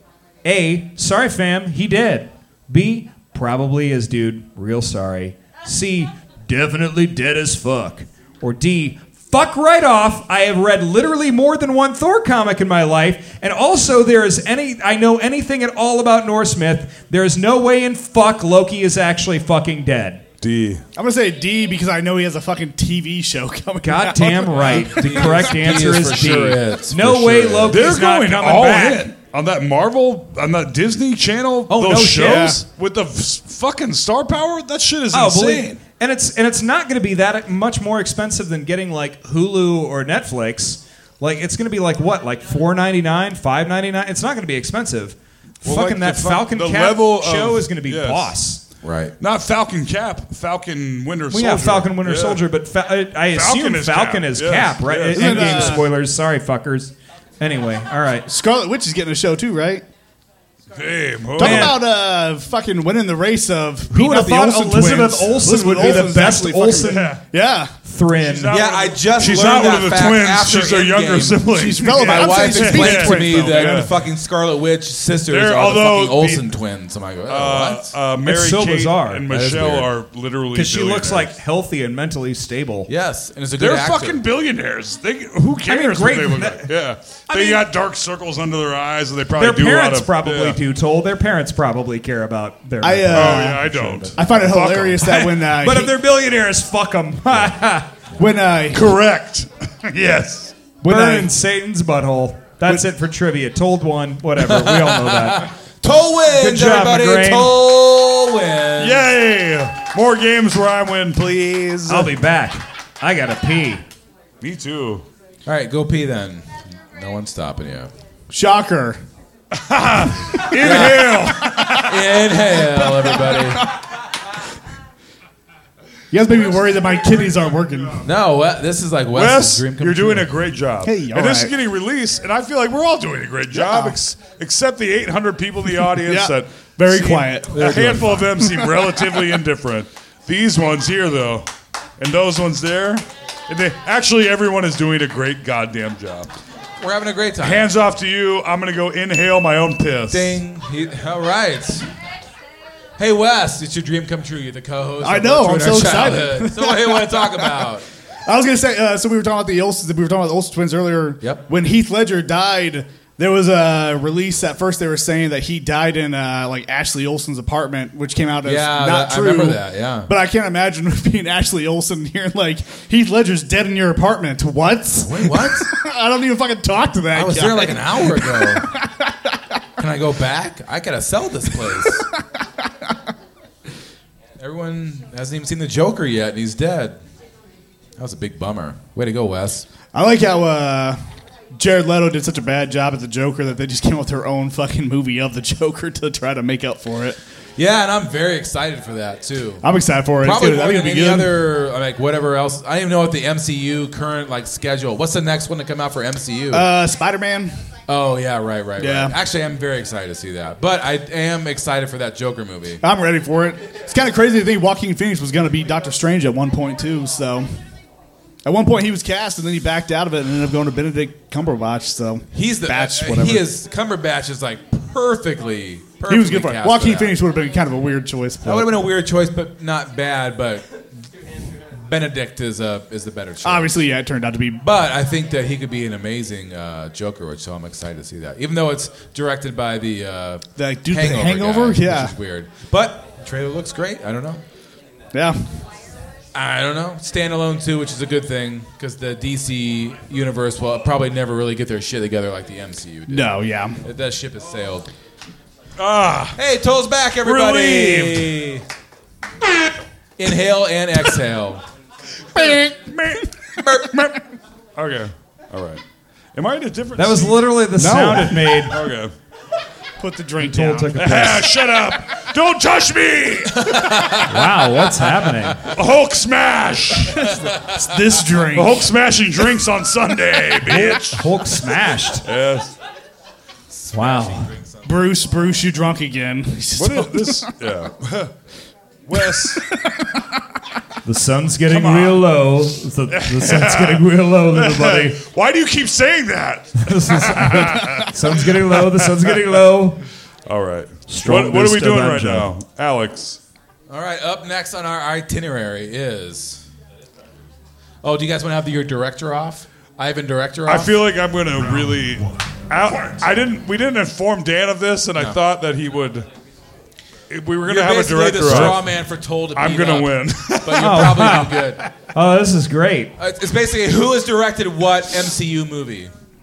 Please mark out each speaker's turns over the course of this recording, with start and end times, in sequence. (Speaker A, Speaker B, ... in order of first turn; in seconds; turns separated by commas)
Speaker A: 0.4-20.3, Speaker B: 20.4-20.8, Speaker C: 21.0-25.8, Speaker A: 23.8-29.1, Speaker D: 24.6-27.9, Speaker B: 27.7-35.8, Speaker A: 31.7-32.6, Speaker C: 32.2-32.6, Speaker A: 35.1-48.6, Speaker B: 45.6-48.3, Speaker D: 48.8-49.1, Speaker B: 49.2-52.4, Speaker A: 51.3-58.3, Speaker B: 53.3-55.7, Speaker C: 55.1-55.9, Speaker C: 58.3-59.8, Speaker B: 60.8-61.8, Speaker C: 61.4-67.8, Speaker A: 61.4-61.8, Speaker A: 63.9-67.2, Speaker B: 65.8-66.1, Speaker B: 66.9-67.2, Speaker A: 67.8-68.6, Speaker B: 68.2-73.9, Speaker D: 68.5-77.9, Speaker C: 71.5-73.9, Speaker B: 75.3-76.5, Speaker B: 77.3-81.3, Speaker A: 78.2-79.3, Speaker D: 79.3-79.9, Speaker A: 80.5-82.9, Speaker D: 82.9-84.2, Speaker B: 83.6-90.6, Speaker A: 85.7-86.7, Speaker A: 87.3-87.7, Speaker A: 89.4-97.9, Speaker C: 92.8-95.9, Speaker B: 93.1-95.2, Speaker C: 98.2-99.0, Speaker B: 98.7-100.6, Speaker C: 100.8-101.3, Speaker A: 100.9-105.5, Speaker D: 104.4-109.1, Speaker A: 106.3-107.6, Speaker B: 108.8-112.1, Speaker A: 111.9-113.8, Speaker B: 114.4-115.0, Speaker D: 115.5-117.9, Speaker C: 118.3-119.0, Speaker B: 119.5-121.9, Speaker C: 120.5-121.8, Speaker D: 120.6-121.1, Speaker D: 121.8-123.6, Speaker C: 123.0-123.5, Speaker C: 126.1-128.1, Speaker D: 128.0-130.3, Speaker B: 129.1-141.5, Speaker C: 130.8-131.5, Speaker C: 133.5-134.0, Speaker C: 136.0-138.9, Speaker B: 142.0-146.3, Speaker D: 146.8-147.7, Speaker B: 147.4-150.4, Speaker D: 150.1-151.9, Speaker D: 153.0-157.8, Speaker C: 155.0-157.6, Speaker C: 158.3-178.9, Speaker D: 168.4-170.1, Speaker D: 175.0-175.7, Speaker D: 177.1-178.7, Speaker D: 179.8-182.1, Speaker D: 184.4-187.0, Speaker D: 188.0-189.7, Speaker C: 189.9-191.0, Speaker C: 191.6-197.2, Speaker D: 197.6-199.7, Speaker C: 199.6-201.4, Speaker D: 200.2-206.7, Speaker C: 206.5-207.6, Speaker D: 207.9-212.8, Speaker C: 208.8-209.2, Speaker C: 212.8-217.5, Speaker C: 218.4-223.5, Speaker D: 222.3-227.2, Speaker C: 226.1-228.7, Speaker D: 228.4-230.8, Speaker D: 231.7-233.8, Speaker C: 233.4-234.6, Speaker D: 234.6-244.4, Speaker C: 240.6-242.2, Speaker C: 245.1-245.5, Speaker D: 246.3-254.9, Speaker C: 253.1-253.8, Speaker B: 255.8-256.4, Speaker D: 256.4-258.6, Speaker B: 257.2-258.4, Speaker D: 260.2-261.6, Speaker B: 262.5-263.2, Speaker D: 263.6-264.1, Speaker B: 264.8-265.8, Speaker B: 266.3-269.1, Speaker A: 267.0-268.8, Speaker C: 270.0-271.2, Speaker A: 270.4-271.5, Speaker B: 271.0-274.1, Speaker D: 273.6-274.3, Speaker A: 274.2-275.6, Speaker B: 275.7-277.3, Speaker C: 277.2-278.9, Speaker D: 277.2-277.8, Speaker B: 278.5-281.2, Speaker A: 280.6-282.3, Speaker B: 282.2-282.7, Speaker D: 283.7-284.9, Speaker A: 283.9-284.5, Speaker C: 284.9-287.5, Speaker B: 286.8-288.3, Speaker B: 289.1-289.6, Speaker C: 289.2-290.2, Speaker A: 291.1-295.2, Speaker B: 291.7-292.2, Speaker B: 293.1-299.4, Speaker A: 296.8-300.0, Speaker B: 300.5-303.4, Speaker A: 301.1-302.5, Speaker D: 303.9-306.6, Speaker D: 308.0-311.0, Speaker B: 310.7-316.3, Speaker B: 317.3-319.0, Speaker D: 317.6-321.8, Speaker B: 319.6-321.3, Speaker A: 320.8-323.1, Speaker D: 323.2-326.1